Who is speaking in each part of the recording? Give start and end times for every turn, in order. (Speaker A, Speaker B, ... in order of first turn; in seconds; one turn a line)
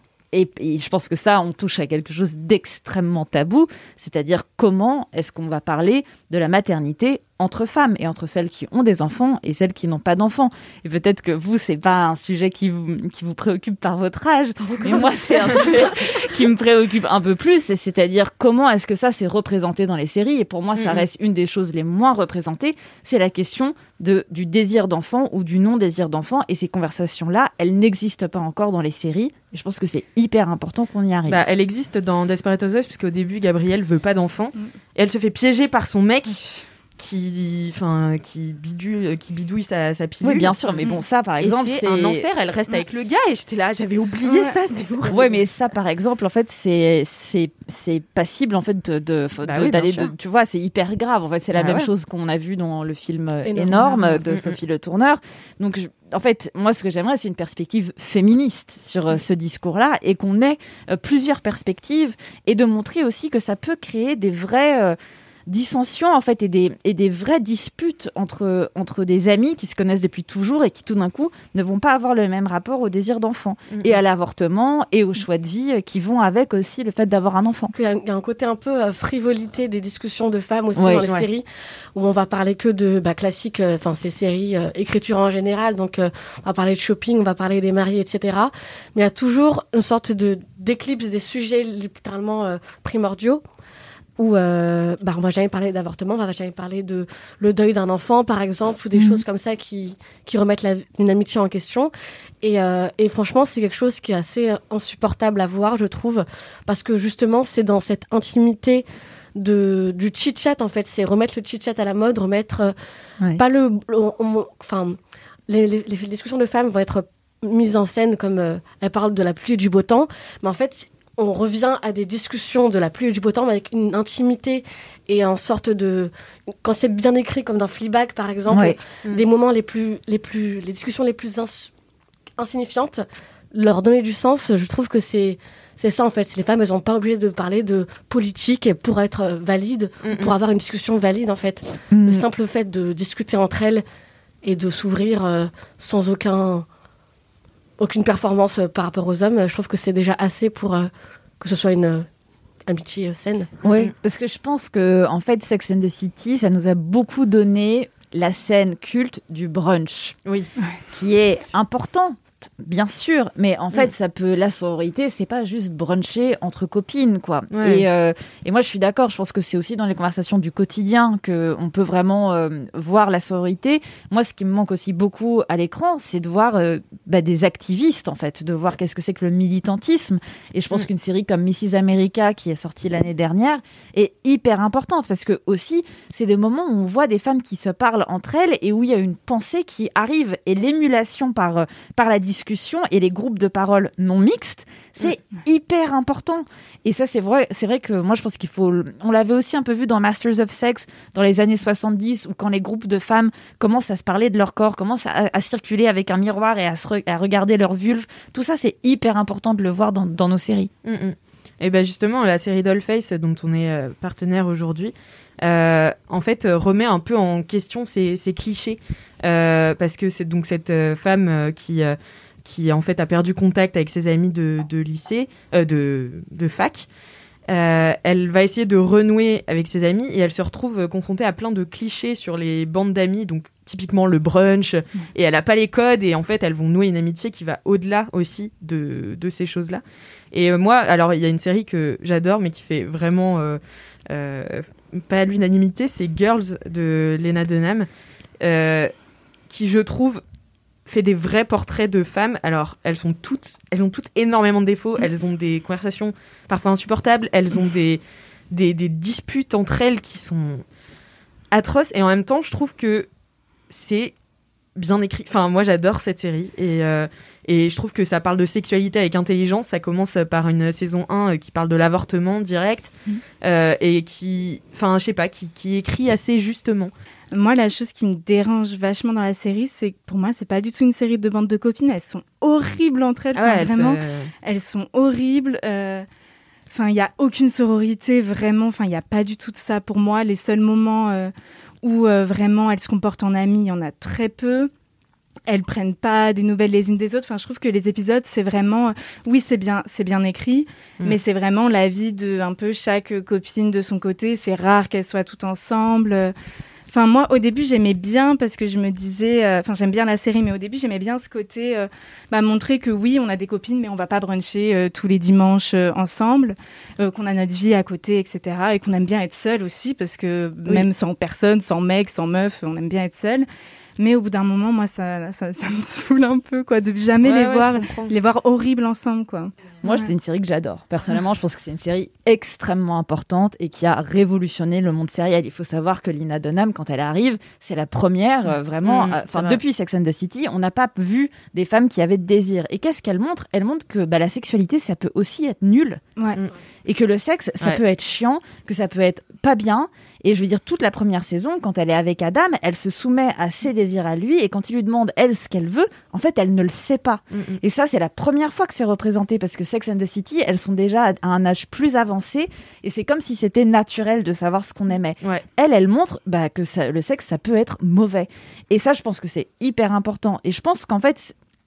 Speaker A: 0.3-31.4
Speaker B: 15.4-15.7
Speaker C: 20.7-21.1
Speaker C: 31.3-45.3
Speaker D: 36.3-36.6
Speaker A: 40.2-42.3
Speaker D: 44.2-44.8
Speaker A: 45.1-77.7
Speaker C: 49.4-50.1
Speaker C: 51.5-51.9
Speaker B: 53.5-54.0
Speaker C: 54.2-54.6
Speaker C: 73.7-74.0
Speaker B: 77.7-93.4
Speaker A: 80.7-81.0
Speaker B: 94.2-108.8
Speaker B: 109.3-112.7
Speaker B: 113.3-115.0
Speaker B: 115.5-131.7
Speaker A: 128.5-128.8
Speaker B: 132.4-143.8
Speaker C: 140.0-140.3
Speaker A: 141.9-142.2
Speaker B: 144.4-146.7
Speaker B: 147.8-152.1
Speaker B: 152.7-153.5
Speaker A: 153.6-160.2
Speaker A: 160.9-210.7
Speaker C: 167.5-167.8
Speaker C: 210.8-226.9
Speaker C: 227.5-247.9
Speaker C: 248.4-248.9
Speaker C: 249.5-250.2
Speaker C: 250.9-260.6
Speaker C: 261.5-263.1
Speaker C: 263.7-264.1
Speaker C: 264.8-276.9
Speaker D: 277.3-286.1
Speaker C: 283.3-284.3
Speaker D: 286.7-294.7
Speaker D: 295.5-306.3
Speaker D: 306.9-323.5
Speaker D: 324.0-330.1
Speaker C: 327.2-328.1
Speaker A: 329.8-346.0
Speaker C: 338.8-339.6
Speaker A: 346.8-371.3
Speaker C: 357.3-357.6